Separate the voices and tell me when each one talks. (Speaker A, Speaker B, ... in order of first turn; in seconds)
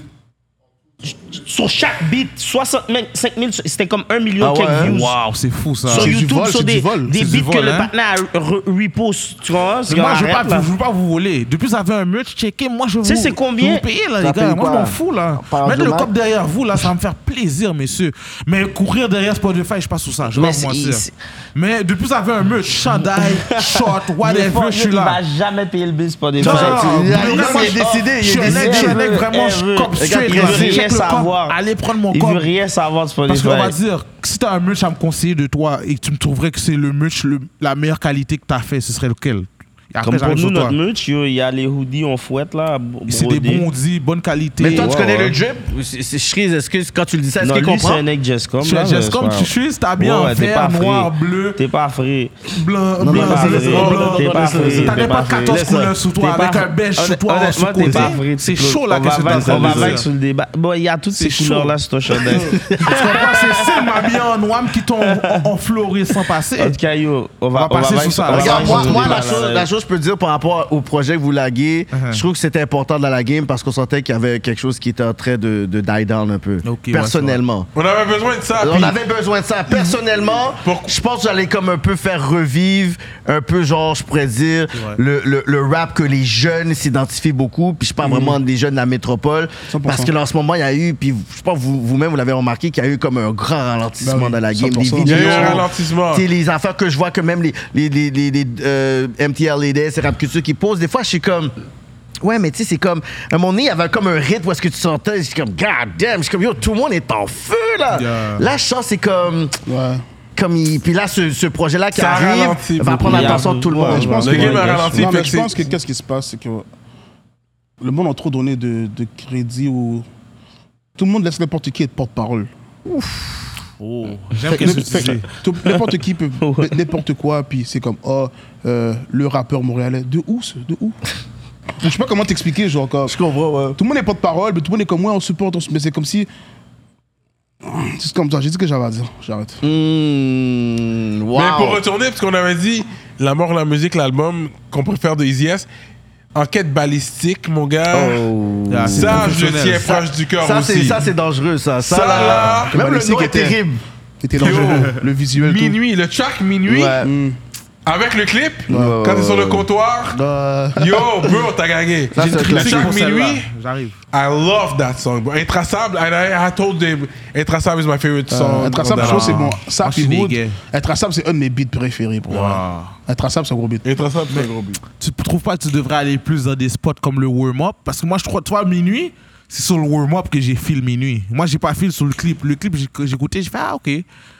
Speaker A: 1.0-5.2, 5.8-10.7, 13.0-13.8, 20.3-21.1, 22.9-31.6, 32.1-33.8, 40.0-43.6, 44.6-45.3, 47.4-52.3, 53.0-55.6, 56.2-63.8, 65.0-65.5, 66.6-69.7, 113.0-115.1, 126.4-126.8
Speaker B: 4.4-4.9, 14.2-16.1, 26.4-29.0, 30.0-30.8, 44.6-48.0, 53.0-55.9, 57.8-58.1, 59.3-60.0, 62.2-63.2, 68.3-77.7, 78.6-101.5, 102.2-109.6, 110.3-114.5, 133.1-133.8, 139.6-141.8, 147.9-153.8, 156.7-157.1, 158.7-159.7, 162.1-162.9, 174.2-174.8
Speaker C: 4.8-6.1, 7.1-7.9, 9.9-25.2, 26.4-32.5, 33.3-40.8, 43.1-45.4, 48.6-51.6, 52.5-60.0, 61.1-61.8, 62.3-66.8, 67.5-69.4, 71.9-72.2, 76.6-77.4, 84.7-85.0, 107.9-108.5, 123.8-125.3, 148.7-150.0, 154.4-154.9, 162.1-164.0, 168.8-170.6, 172.3-172.9, 175.0-184.1
Speaker D: 5.9-7.1, 88.0-88.4, 89.7-90.1, 94.0-95.6, 109.7-110.0, 113.8-116.7, 117.8-120.0, 121.0-122.5, 124.5-131.0, 131.8-133.2, 133.8-136.3, 137.6-139.6, 152.6-153.6, 154.2-155.8, 157.0-157.4, 158.7-159.0, 160.1-161.1, 168.3-173.8
Speaker E: 53.7-54.1, 77.7-79.0, 80.6-80.9, 95.0-96.3, 111.9-113.5, 114.1-115.6, 141.3-145.7, 146.3-148.3, 148.9-151.0, 151.8-152.7, 154.4-157.0, 157.8-160.2, 160.8-163.5, 164.1-169.5, 173.8-174.8